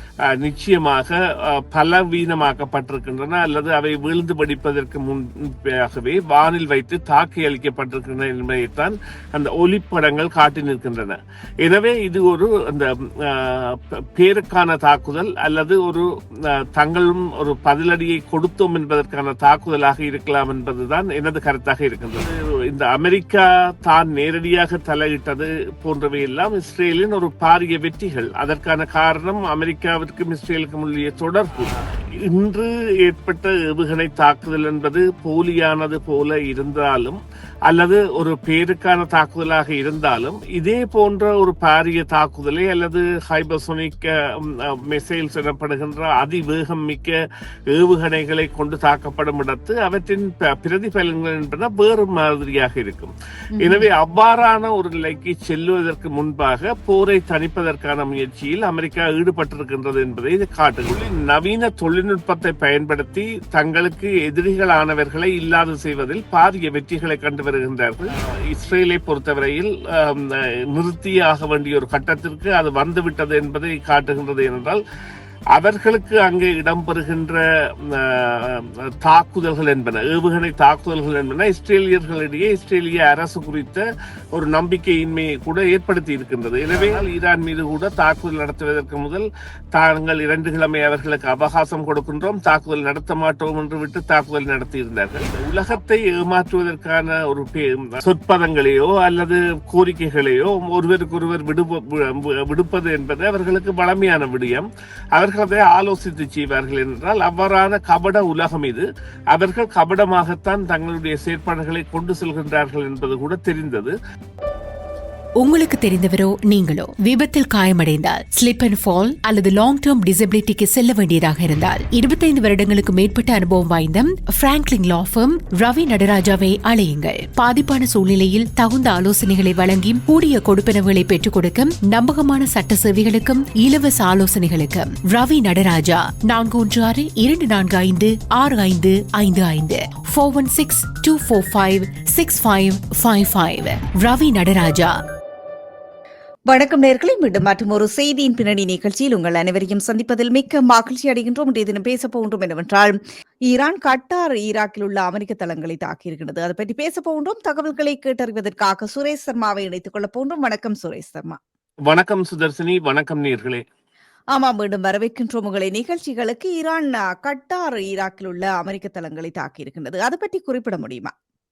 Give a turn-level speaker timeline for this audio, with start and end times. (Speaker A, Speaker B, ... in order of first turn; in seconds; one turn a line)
Speaker A: 0.4-47.1
Speaker A: 47.7-74.8
Speaker B: 53.6-53.9
Speaker A: 75.5-83.8
Speaker A: 84.3-113.9
Speaker C: 115.4-145.0
Speaker B: 146.5-152.9
Speaker B: 153.5-161.4
Speaker A: 161.9-163.6
Speaker B: 164.3-171.1